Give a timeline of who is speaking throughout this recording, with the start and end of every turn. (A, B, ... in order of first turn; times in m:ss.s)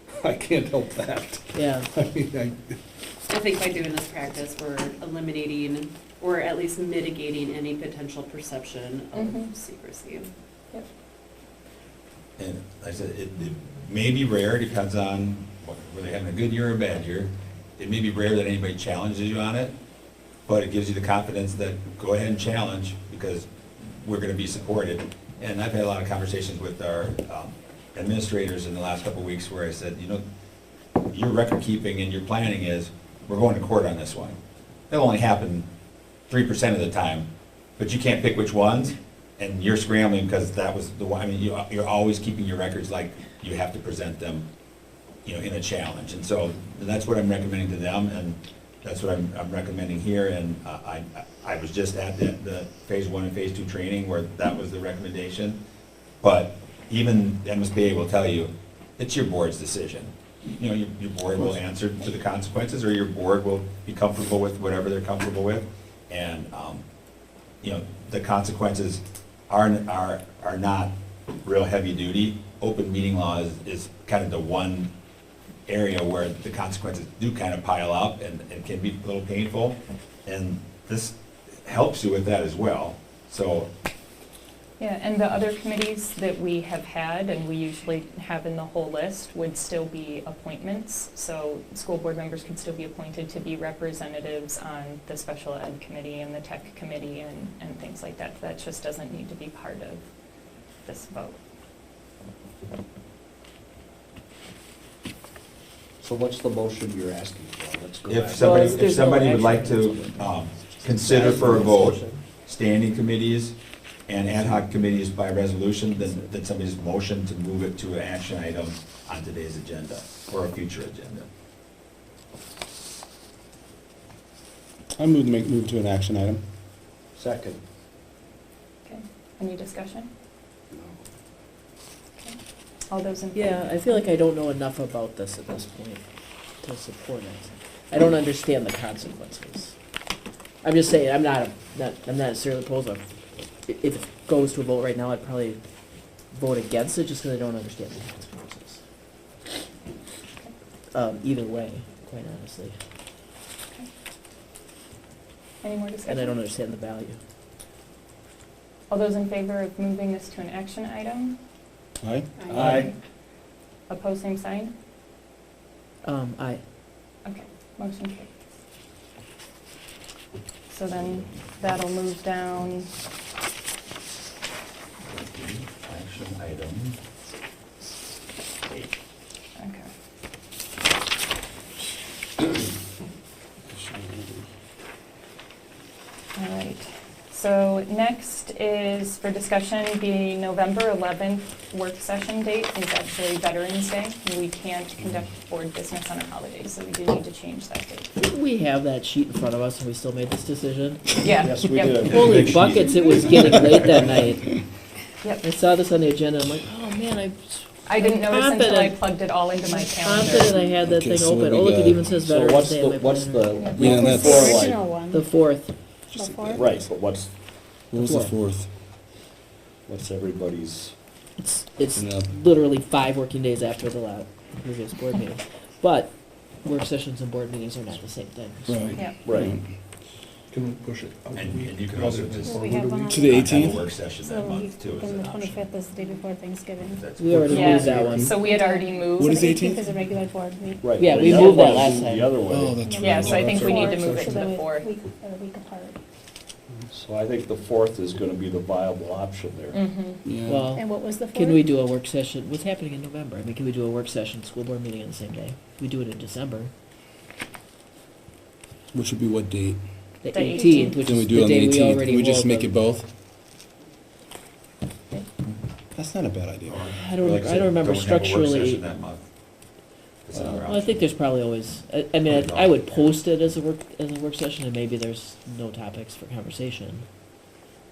0:00.2-0:02.8 A
0:01.5-0:01.9 B
0:03.3-0:10.3 C
0:09.1-0:09.5 D
0:12.4-0:19.7 E
0:20.5-0:30.2 E
0:31.1-0:34.4 E
0:34.9-0:35.6 E
0:36.3-0:37.3 E
0:37.8-0:44.4 E
0:45.2-0:55.6 E
0:56.2-1:06.8 E
1:07.6-1:14.9 E
1:15.7-1:23.7 E
1:24.8-1:40.0 D
1:40.8-1:41.4 D
1:46.0-1:48.7 F
1:48.0-1:53.6 E
1:48.3-1:52.2 B
1:54.1-2:01.2 E
1:55.9-1:56.3 B
2:05.0-2:06.4 G
2:07.2-2:07.6 F
2:08.8-2:10.1 D
2:12.9-2:14.0 D
2:13.3-2:16.0 B
2:16.6-2:19.7 B
2:20.6-2:23.0 B
2:23.6-2:25.6 B
2:26.3-2:28.8 B
2:30.9-2:32.8 B
2:35.6-2:36.4 D
2:36.0-2:37.2 B
2:38.9-2:41.4 D
2:42.0-2:42.3 G
2:42.4-2:42.7 H
2:42.5-2:42.9 D
2:42.6-2:42.9 F
2:43.9-2:44.7 D
2:46.0-2:46.6 B
2:47.2-2:48.3 D
2:50.7-2:52.9 D
2:55.0-2:57.0 E
2:58.6-2:58.9 E
2:59.6-2:59.9 D
3:03.8-3:04.4 G
3:06.4-3:18.1 D
3:18.2-3:21.2 B
3:21.2-3:22.2 D
3:21.4-3:22.1 F
3:22.0-3:24.1 E
3:22.1-3:24.6 B
3:25.4-3:34.2 B
3:27.8-3:30.7 D
3:30.7-3:32.3 G
3:32.3-3:34.8 F
3:33.6-3:34.6 D
3:33.7-3:34.7 G
3:33.9-3:35.5 H
3:34.9-3:35.7 B
3:36.1-3:36.9 G
3:36.1-3:36.7 H
3:36.5-3:37.3 F
3:37.9-3:38.7 G
3:38.0-3:38.3 B
3:39.8-3:40.9 F
3:41.4-3:49.1 B
3:41.9-3:42.3 G
3:48.7-3:49.1 A
3:49.2-3:49.5 F
3:49.2-3:49.7 G
3:50.5-3:53.1 A
3:51.3-3:55.7 E
3:52.4-3:57.0 H
3:53.0-3:53.8 G
3:56.9-3:57.9 E
3:57.2-3:58.3 B
3:57.3-3:58.4 G
3:57.5-3:59.5 D
3:58.4-4:01.4 H
3:59.2-4:00.2 G
4:00.8-4:02.8 F
4:01.0-4:02.3 B
4:01.7-4:03.5 G
4:02.8-4:06.0 H
4:03.0-4:04.9 D
4:03.3-4:04.3 A
4:06.9-4:09.8 F
4:09.7-4:10.2 D
4:10.2-4:10.7 G
4:10.4-4:16.7 B
4:10.7-4:11.7 H
4:18.9-4:19.8 G
4:20.2-4:22.8 B
4:20.3-4:21.0 D
4:20.5-4:20.9 H
4:20.9-4:23.1 G
4:26.0-4:26.9 G
4:26.6-4:29.2 E
4:26.9-4:28.8 B
4:30.2-4:31.0 E
4:30.3-4:37.1 B
4:32.2-4:33.2 E